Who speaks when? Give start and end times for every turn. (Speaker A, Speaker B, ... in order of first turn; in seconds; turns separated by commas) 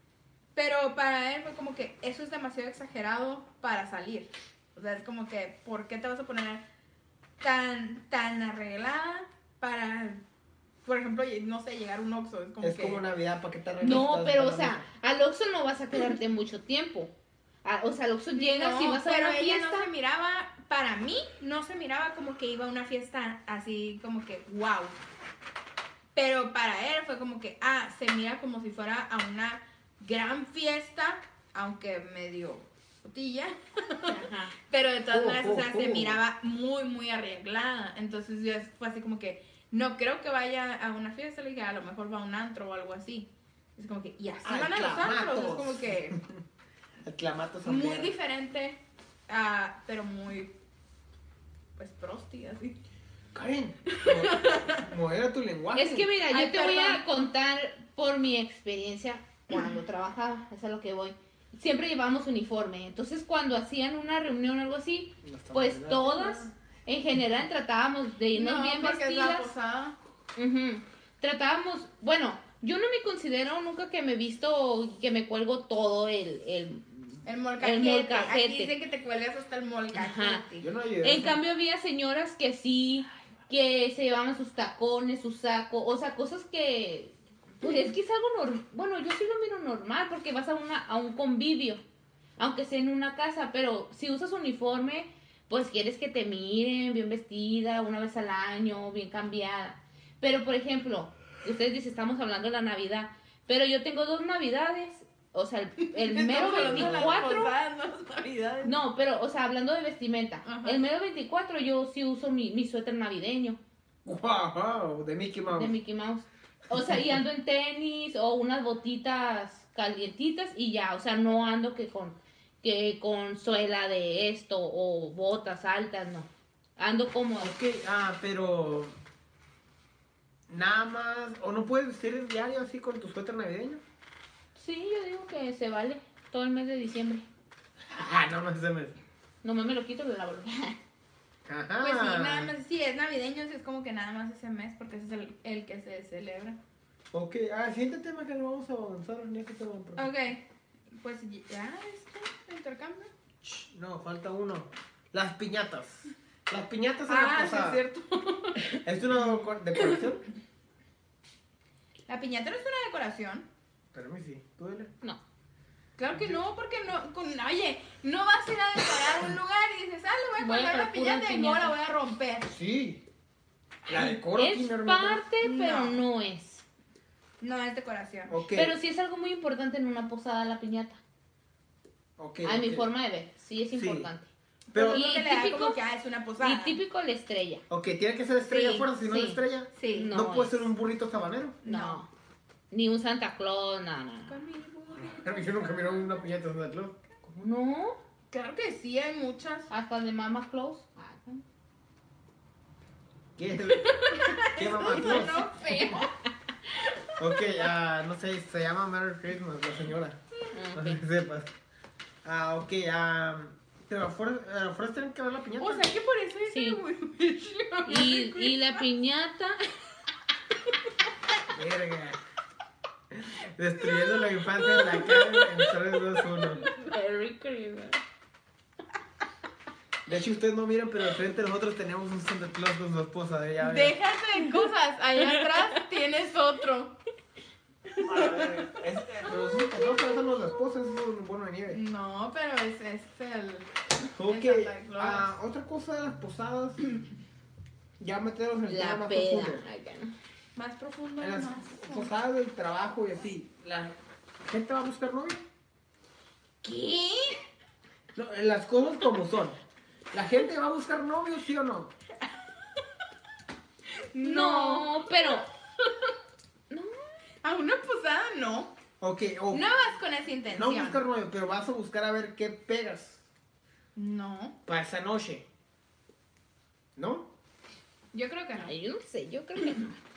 Speaker A: 0.5-6.6, Speaker A: 7.4-10.2, Speaker A: 10.8-13.0, Speaker B: 12.6-14.8, Speaker C: 13.8-17.1, Speaker C: 17.6-19.9, Speaker A: 18.3-25.0, Speaker A: 26.1-46.2, Speaker C: 34.0-34.5, Speaker B: 35.1-36.2, Speaker B: 44.4-46.4, Speaker B: 47.0-48.1, Speaker A: 47.6-50.5, Speaker A: 51.8-52.8, Speaker B: 53.3-56.1, Speaker A: 53.9-54.8, Speaker C: 55.7-69.5, Speaker A: 56.3-57.0, Speaker B: 65.2-66.5, Speaker A: 68.3-70.0, Speaker C: 70.3-78.7, Speaker A: 77.2-80.7, Speaker C: 79.9-80.4, Speaker B: 80.6-81.4, Speaker C: 81.0-91.8, Speaker C: 92.4-107.5, Speaker A: 105.8-108.7, Speaker B: 106.5-107.1, Speaker C: 108.6-113.6, Speaker A: 110.4-110.8, Speaker B: 114.0-115.7, Speaker C: 115.5-127.5, Speaker B: 127.4-128.9, Speaker B: 130.5-133.8, Speaker C: 134.6-137.2, Speaker B: 137.9-138.9, Speaker C: 139.4-140.8, Speaker B: 141.4-142.5, Speaker A: 141.8-146.6, Speaker B: 147.1-150.1, Speaker A: 150.0-153.1, Speaker B: 153.4-157.8, Speaker A: 157.1-158.8, Speaker B: 158.6-160.2, Speaker A: 159.8-160.1, Speaker A: 162.1-163.4, Speaker B: 163.9-164.9, Speaker A: 166.0-172.4, Speaker C: 170.4-171.7, Speaker B: 172.4-173.0, Speaker B: 173.8-175.2, Speaker C: 173.9-176.6, Speaker A: 175.4-176.0, Speaker A: 177.4-178.3, Speaker B: 178.3-178.7, Speaker C: 178.5-181.0, Speaker B: 182.2-182.9, Speaker C: 182.4-184.3, Speaker B: 183.7-184.1, Speaker B: 184.7-185.0, Speaker A: 184.7-186.8, Speaker C: 184.9-185.8, Speaker C: 186.4-187.6, Speaker B: 187.7-191.6, Speaker A: 188.4-188.9, Speaker C: 189.0-189.4, Speaker A: 189.7-190.1, Speaker C: 189.9-190.7, Speaker A: 191.6-192.0, Speaker C: 191.6-192.1, Speaker C: 192.7-194.4, Speaker A: 194.2-196.3, Speaker B: 194.9-196.9, Speaker C: 197.2-198.0, Speaker A: 198.3-199.7, Speaker C: 199.7-201.4, Speaker B: 203.4-205.9, Speaker A: 203.9-206.1, Speaker C: 204.8-206.1, Speaker B: 207.2-210.2, Speaker C: 210.5-211.0, Speaker B: 210.7-211.5, Speaker B: 212.2-215.9, Speaker A: 215.6-218.8, Speaker C: 216.5-216.8, Speaker C: 217.8-219.6, Speaker B: 221.5-222.2, Speaker B: 223.1-226.6, Speaker A: 224.0-226.9, Speaker C: 226.7-228.0, Speaker B: 230.1-233.9, Speaker A: 233.6-237.0, Speaker C: 234.4-234.7, Speaker C: 235.2-235.8, Speaker B: 238.0-241.8, Speaker A: 238.0-238.6, Speaker A: 241.7-243.7, Speaker B: 244.0-246.9, Speaker A: 244.2-245.3, Speaker B: 248.0-249.6, Speaker C: 248.7-250.1, Speaker A: 250.5-252.1, Speaker B: 251.2-255.4, Speaker A: 256.6-257.4, Speaker B: 258.1-259.6, Speaker B: 260.1-261.9, Speaker A: 264.1-265.9, Speaker C: 264.2-265.5, Speaker C: 266.7-266.9, Speaker A: 267.4-268.7, Speaker B: 269.0-269.6, Speaker A: 269.5-271.0, Speaker B: 270.5-273.2, Speaker A: 273.9-274.6, Speaker B: 274.6-275.4, Speaker B: 276.9-277.3, Speaker A: 278.1-278.7, Speaker C: 278.6-280.0